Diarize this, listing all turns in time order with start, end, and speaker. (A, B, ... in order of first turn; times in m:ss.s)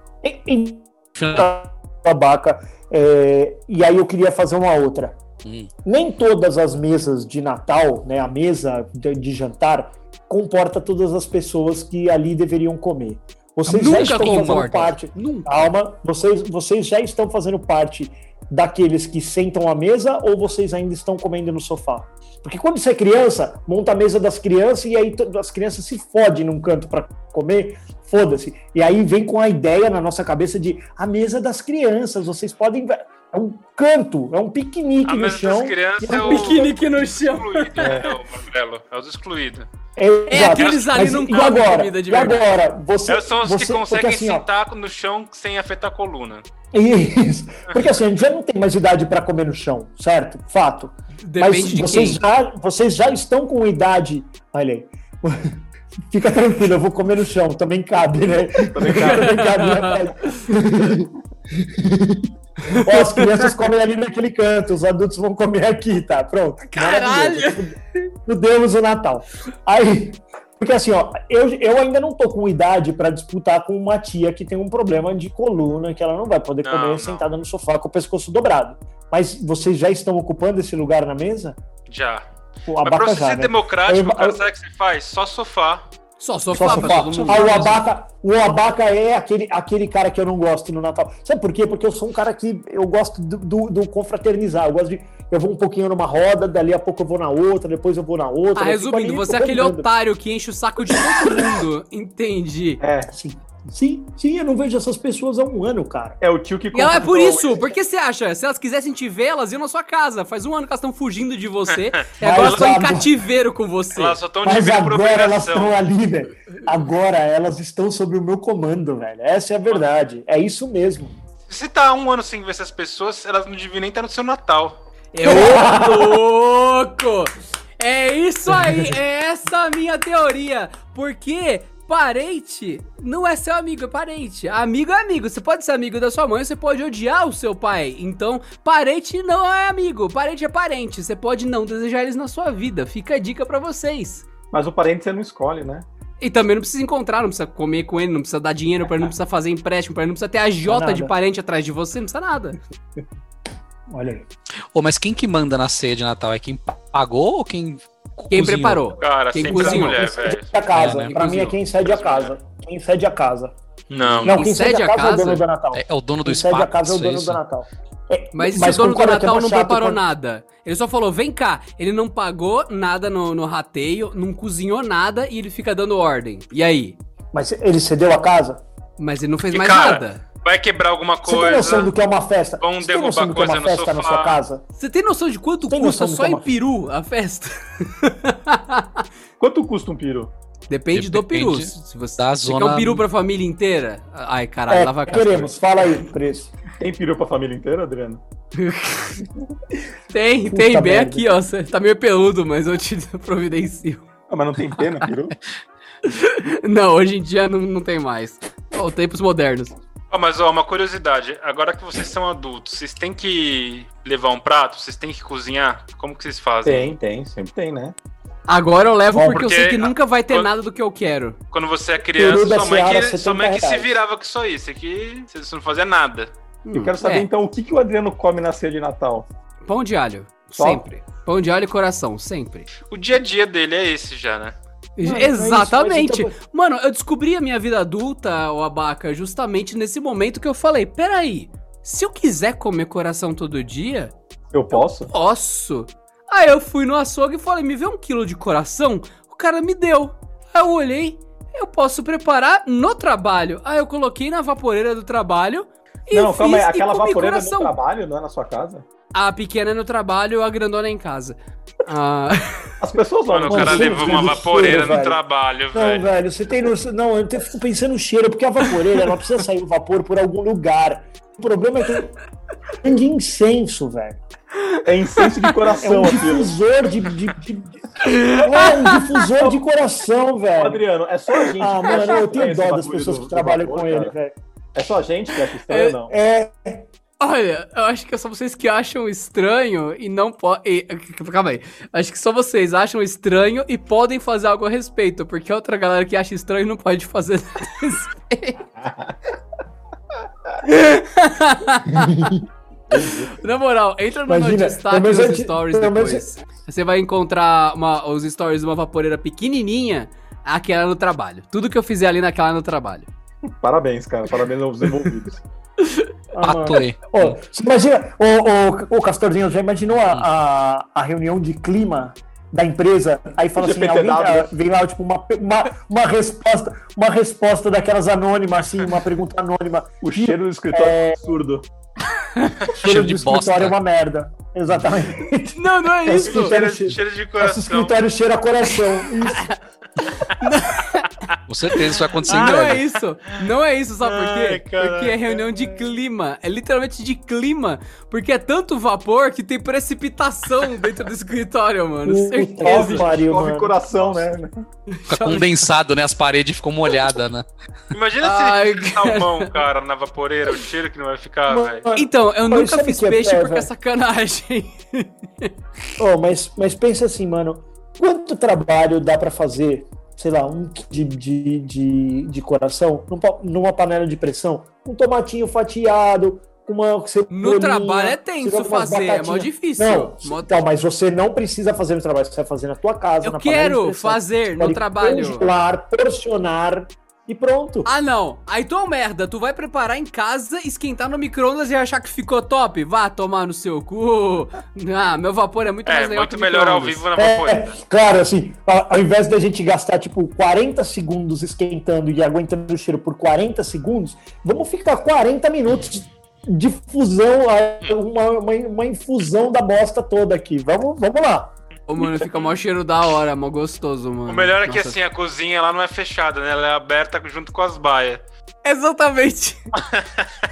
0:00.2-0:05.2 A
0:01.2-0:01.5 B
0:05.8-0:37.0 A
0:13.7-0:15.5 C
0:13.8-0:14.7 B
0:35.0-0:39.7 D
0:36.1-0:38.0 C
0:37.8-0:38.1 E
0:40.0-0:44.5 A
0:40.3-0:42.5 C
0:40.5-0:40.9 D
0:43.1-0:46.4 D
0:46.7-1:21.6 A
0:51.2-0:52.2 C
0:58.7-0:59.7 E
0:58.9-1:00.5 C
1:02.6-1:03.5 C
1:06.6-1:08.1 C
1:16.6-1:17.3 D
1:21.9-1:22.2 D
1:22.7-1:24.4 A
1:22.8-1:25.8 D
1:26.2-1:27.8 C
1:26.6-1:39.9 A
1:26.6-1:27.8 B
1:38.6-1:42.8 C
1:40.9-1:41.4 A
1:42.8-1:43.1 E
1:43.1-1:46.2 A
1:46.2-1:47.6 E
1:46.7-1:54.2 C
1:52.2-1:53.1 A
1:52.3-1:52.7 D
1:53.9-1:55.8 D
1:54.4-2:01.1 A
2:01.5-2:04.8 D
2:05.1-2:24.2 C
2:05.2-2:06.2 A
2:24.5-2:25.9 E
2:26.2-2:32.6 C
2:30.6-2:31.1 A
2:33.9-2:34.3 A
2:34.7-2:38.9 B
2:38.3-2:40.1 C
2:39.0-2:40.6 D
2:39.4-2:43.5 A
2:39.4-2:39.7 E
2:40.7-2:41.1 B
2:40.8-2:41.6 C
2:41.6-2:42.3 D
2:43.9-2:44.3 D
2:44.0-2:44.4 B
2:44.2-2:50.0 A
2:44.3-2:45.4 C
2:45.7-2:47.4 B
2:48.3-2:57.0 C
2:57.3-2:58.6 A
2:59.0-3:00.2 C
2:59.5-3:01.9 D
3:01.2-3:04.6 A
3:02.6-3:04.4 D
3:04.8-3:09.0 C
3:05.7-3:06.5 A
3:09.4-3:10.3 E
3:10.7-3:15.5 C
3:10.9-3:13.0 B
3:14.7-3:16.5 A
3:16.8-3:18.2 E
3:18.6-3:19.2 C
3:20.1-3:24.0 C
3:20.5-3:21.3 A
3:24.3-3:25.4 E
3:26.0-3:29.8 C
3:30.1-3:36.9 D
3:36.6-3:38.0 E
3:38.5-3:41.4 C
3:39.1-3:39.5 A
3:39.3-3:40.5 D
3:41.5-3:46.3 D
3:42.2-3:43.9 A
3:46.6-3:47.3 C
3:46.7-3:49.3 E
3:49.7-3:52.7 C
3:52.9-3:54.6 D
3:55.0-4:04.1 C
3:55.0-3:56.4 A
4:04.5-4:05.1 E
4:04.7-4:17.7 C
4:16.1-4:18.8 E
4:19.1-4:22.7 C
4:22.8-4:25.0 E
4:23.3-4:26.1 D
4:23.5-4:25.2 A
4:25.7-4:32.2 A
4:32.8-4:34.2 A
4:34.7-4:35.5 C
4:34.8-4:36.5 E
4:35.8-4:40.8 A
4:38.0-4:39.2 C
4:40.6-4:44.1 E
4:41.6-4:44.4 A
4:44.8-4:46.1 E
4:45.7-4:45.9 C
4:46.1-4:46.9 A
4:47.2-4:58.6 C
4:58.8-4:59.2 E
5:00.6-5:02.3 C
5:01.9-5:02.4 A
5:02.9-5:03.3 E
5:03.0-5:13.1 C
5:04.3-5:06.3 A
5:13.6-5:15.4 E
5:15.8-5:16.1 C
5:16.4-5:31.3 A
5:16.4-5:17.4 B
5:23.6-5:24.5 E
5:30.0-5:31.6 E
5:32.4-5:32.6 C
5:32.8-5:33.8 B
5:32.8-5:39.5 A
5:35.5-5:36.6 C
5:36.3-5:38.0 D
5:40.1-5:41.1 C
5:41.5-5:42.8 B
5:41.7-5:53.1 C
5:42.3-5:42.8 D
5:44.0-5:45.9 D
5:52.0-5:54.2 A
5:52.6-5:54.6 E
5:54.9-5:55.6 C
5:55.1-5:57.5 B
5:57.9-6:01.9 D
5:58.2-5:59.5 C
6:01.5-6:03.7 A
6:02.0-6:05.5 C
6:06.0-6:27.9 A
6:17.3-6:20.6 C
6:23.2-6:25.5 C
6:27.8-6:37.0 C
6:35.9-6:37.8 D
6:37.2-6:51.5 A
6:51.9-6:55.0 C
6:54.3-6:58.2 D
6:58.6-6:59.6 C
6:59.8-7:00.2 D